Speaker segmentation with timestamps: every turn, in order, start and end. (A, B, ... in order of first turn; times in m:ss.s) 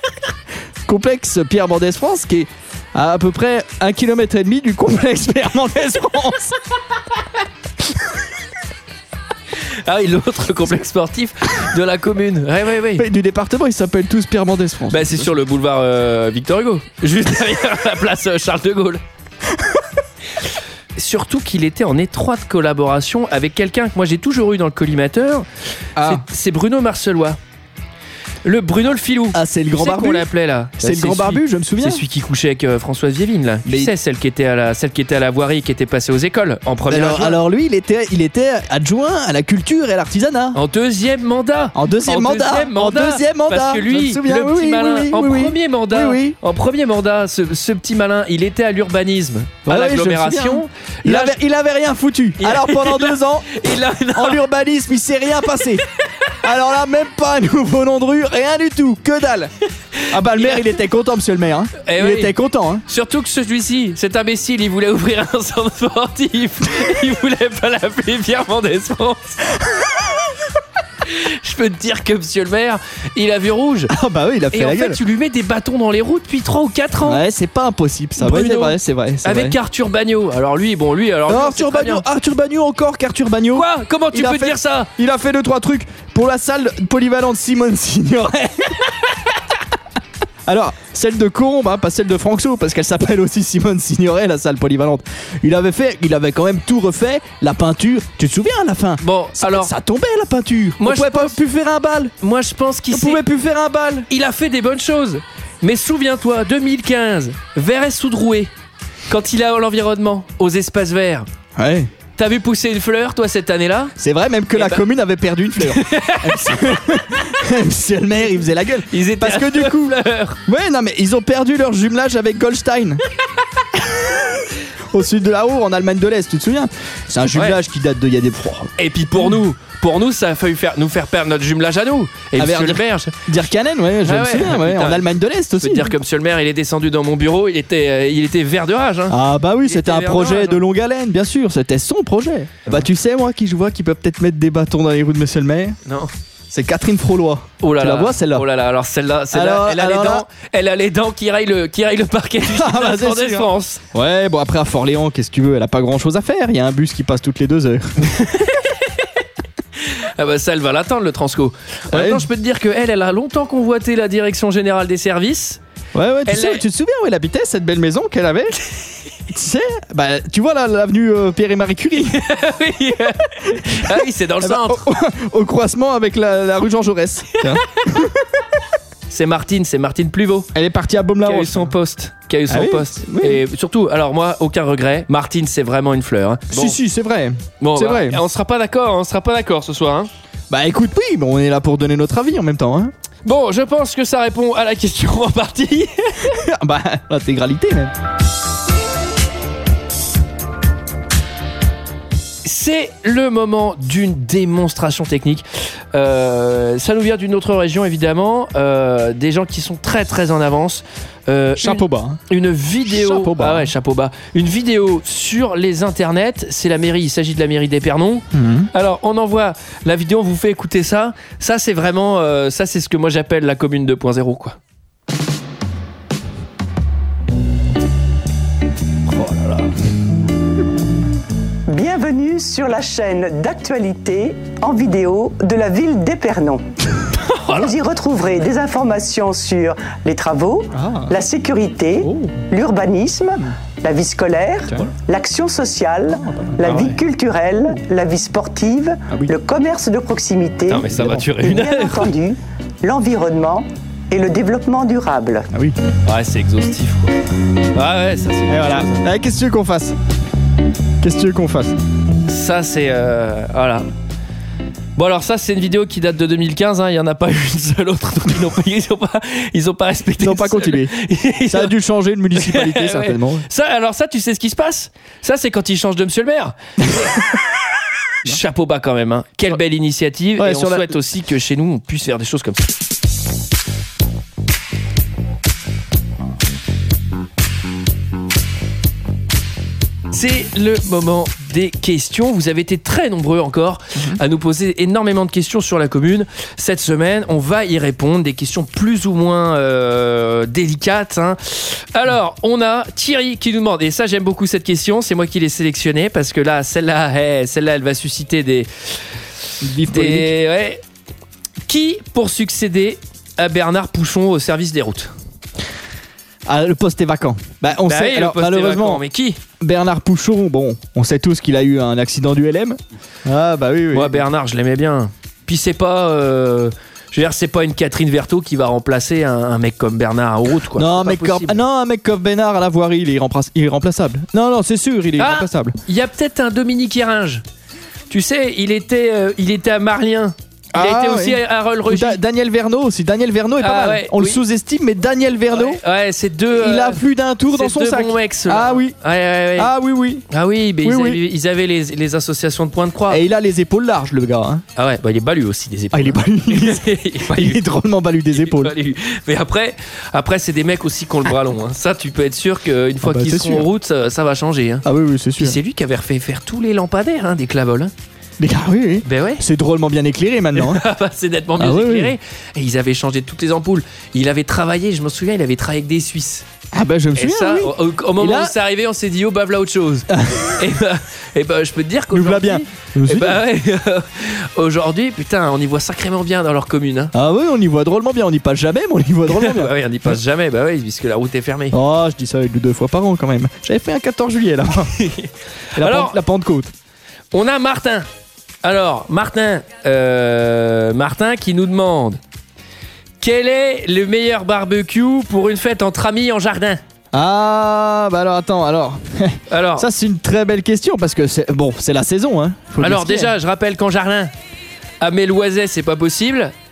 0:00.8-0:06.6 A
0:09.8-0:13.0 B
0:13.0-0:15.3 A
0:14.9-0:19.0 B
0:21.0-0:25.4 B
0:26.0-0:26.2 A
0:26.0-0:27.4 B
0:28.4-0:37.4 B
0:29.3-0:30.2 A
0:30.8-0:32.0 A
0:33.6-0:33.9 A
0:36.9-0:40.6 A
0:40.5-0:51.4 B
0:41.7-0:46.4 A
0:49.6-0:53.5 A
0:52.4-0:54.4 B
0:54.1-0:55.8 A
0:56.4-0:59.5 A
1:00.1-1:02.8 A
1:00.3-1:00.7 B
1:01.8-1:02.3 B
1:02.9-1:09.5 B
1:11.0-1:13.9 B
1:13.9-1:15.0 A
1:14.5-1:17.2 B
1:17.0-1:19.5 A
1:18.2-1:22.0 B
1:21.3-1:28.9 A
1:23.5-1:24.9 B
1:30.4-1:42.1 A
1:39.0-1:39.7 B
1:40.8-1:41.4 B
1:42.2-1:43.2 B
1:42.9-1:44.1 A
1:44.1-1:48.5 B
1:49.1-1:51.2 B
1:51.6-1:51.9 A
1:52.2-1:53.9 B
1:54.0-1:59.9 A
1:54.5-1:54.8 B
1:55.6-1:56.8 B
1:58.9-2:00.4 B
2:00.4-2:03.0 A
2:04.9-2:08.7 A
2:07.3-2:07.6 B
2:08.8-2:13.3 B
2:12.4-2:15.9 A
2:14.0-2:15.1 B
2:15.6-2:20.6 B
2:19.1-2:25.8 A
2:25.8-2:26.1 B
2:26.5-2:28.4 A
2:27.6-2:33.8 B
2:29.3-2:30.2 A
2:32.4-2:38.1 A
2:38.0-2:39.1 B
2:39.8-2:45.6 B
2:41.9-2:42.2 A
2:45.9-2:48.6 A
2:46.3-2:46.6 B
2:49.3-2:52.2 A
2:52.1-2:54.8 B
2:53.7-2:58.2 A
2:59.1-3:00.5 B
3:00.5-3:01.7 A
3:01.2-3:06.8 B
3:02.5-3:03.4 A
3:06.5-3:08.2 A
3:07.6-3:10.1 B
3:10.5-3:12.9 A
3:13.2-3:16.3 B
3:16.3-3:17.9 A
3:22.4-3:44.6 B
3:31.6-3:32.2 A
3:32.9-3:33.7 A
3:38.3-3:38.7 A
3:49.1-3:49.7 B
3:51.7-3:56.6 C
3:57.1-3:57.7 B
3:57.5-4:15.5 C
4:00.7-4:01.1 A
4:02.0-4:02.4 A
4:06.2-4:06.9 A
4:10.7-4:12.1 B
4:16.0-4:17.1 B
4:17.7-4:19.0 B
4:18.5-4:20.0 A
4:21.0-4:21.8 A
4:22.2-4:23.9 B
4:25.0-4:31.7 B
4:30.2-4:30.9 A
4:31.5-4:33.4 A
4:32.3-4:37.2 B
4:38.2-4:42.7 B
4:40.4-4:40.9 A
4:50.1-5:08.7 B
5:09.6-5:10.3 A
5:09.9-5:10.8 B
5:11.6-5:15.1 B
5:16.5-5:19.0 A
5:17.8-5:19.4 B
5:19.6-5:24.2 A
5:23.9-5:31.6 B
5:30.8-5:35.8 A
5:35.2-5:37.4 B
5:38.1-5:42.2 B
5:40.7-5:45.8 A
5:43.6-5:44.4 B
5:45.5-5:49.7 B
5:46.5-5:49.0 A
5:49.6-5:50.2 A
5:50.3-5:53.2 B
5:50.8-5:51.2 A
5:53.1-5:54.6 A
5:54.8-5:57.6 B
5:55.9-5:58.7 A
5:58.3-6:04.8 B
6:03.0-6:03.7 A
6:04.8-6:05.6 A
6:05.4-6:07.9 B
6:08.4-6:10.8 A
6:09.0-6:09.4 B
6:10.5-6:16.4 B
6:11.6-6:12.1 A
6:16.7-6:18.5 A
6:17.2-6:27.1 B
6:20.1-6:20.6 A
6:22.1-6:23.4 A
6:27.1-6:29.7 A
6:29.3-6:31.7 B
6:31.7-6:34.9 A
6:34.9-6:36.2 B
6:35.8-6:36.7 A
6:37.3-6:38.1 B
6:38.6-6:42.2 B
6:43.2-6:46.8 B
6:47.1-6:53.3 A
6:49.5-6:49.9 B
6:52.8-6:54.3 B
6:55.0-6:56.5 B